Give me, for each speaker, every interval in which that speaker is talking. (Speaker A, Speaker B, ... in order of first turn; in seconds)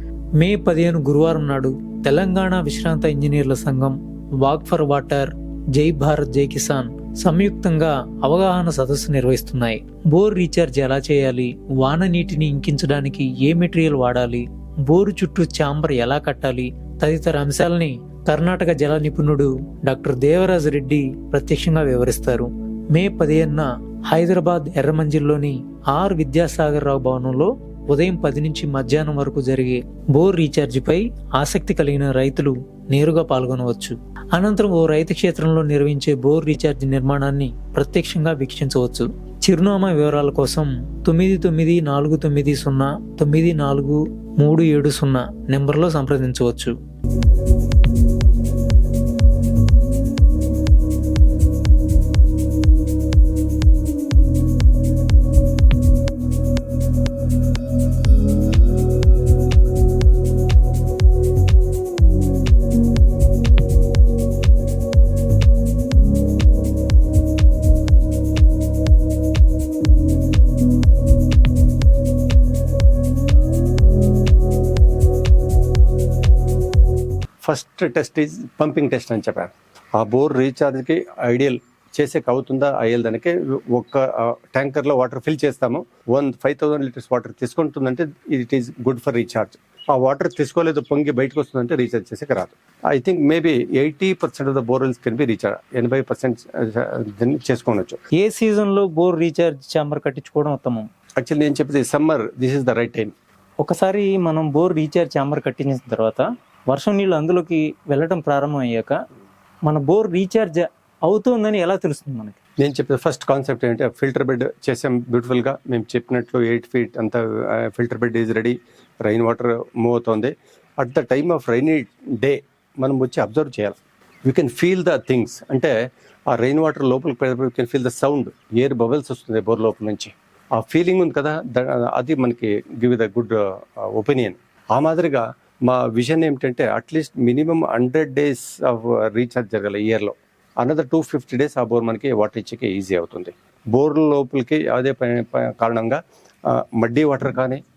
Speaker A: 0.4-46.7, 98.2-100.8, 103.6-109.0, 109.6-112.3
Speaker B: 77.4-98.0, 101.2-103.1, 112.6-125.7, 126.3-147.6